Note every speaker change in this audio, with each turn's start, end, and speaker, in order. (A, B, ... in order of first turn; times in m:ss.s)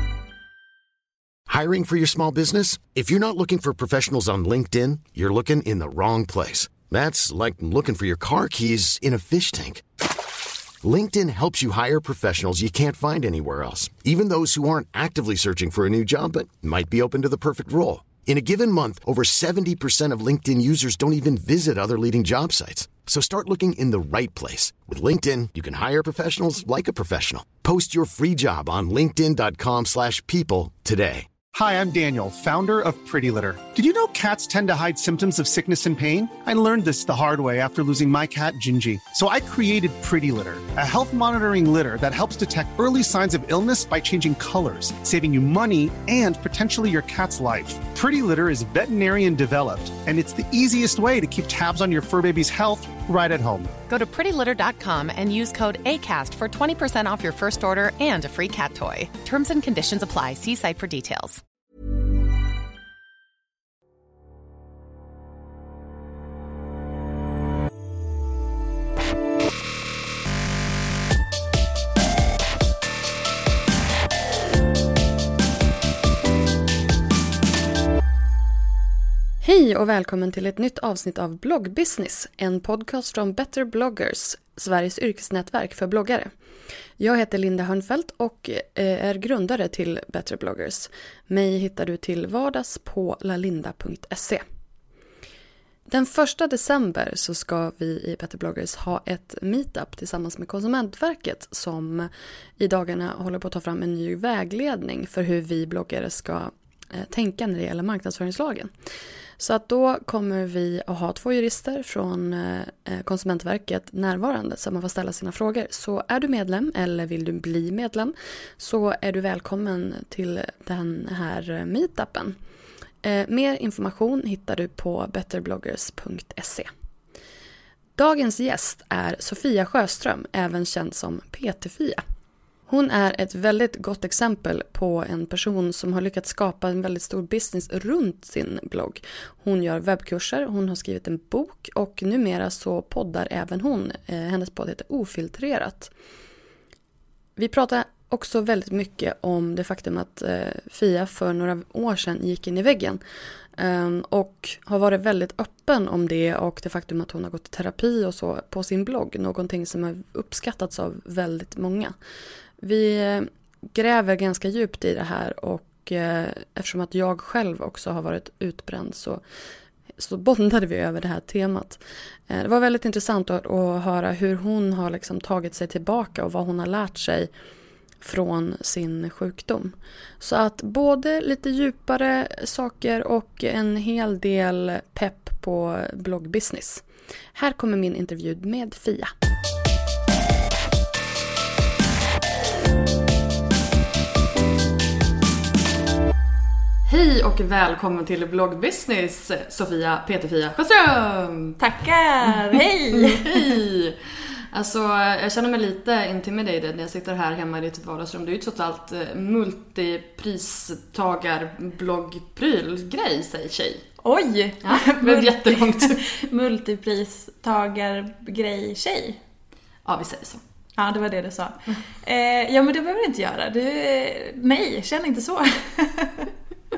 0:01.5-0:09.8 A
0:10.8-0:31.3 A
0:31.5-0:53.8 B
0:53.9-1:01.4 C
1:19.4-1:26.3 D
1:27.0-1:34.4 D
1:35.9-1:48.7 D
1:49.4-2:02.4 D
2:03.0-2:06.7 D
2:08.0-2:12.0 D
2:12.7-2:25.9 D
2:27.4-2:33.0 D
2:33.6-2:42.0 D
2:42.6-2:49.2 D
2:50.0-2:57.3 D
2:58.0-3:06.8 D
3:07.4-3:09.1 D
3:16.9-3:21.6 D
3:21.6-3:23.5 E
3:22.9-3:24.0 D
3:24.5-3:33.8 D
3:34.0-3:39.2 E
3:34.6-3:36.2 D
3:39.8-3:40.4 D
3:40.8-3:46.3 E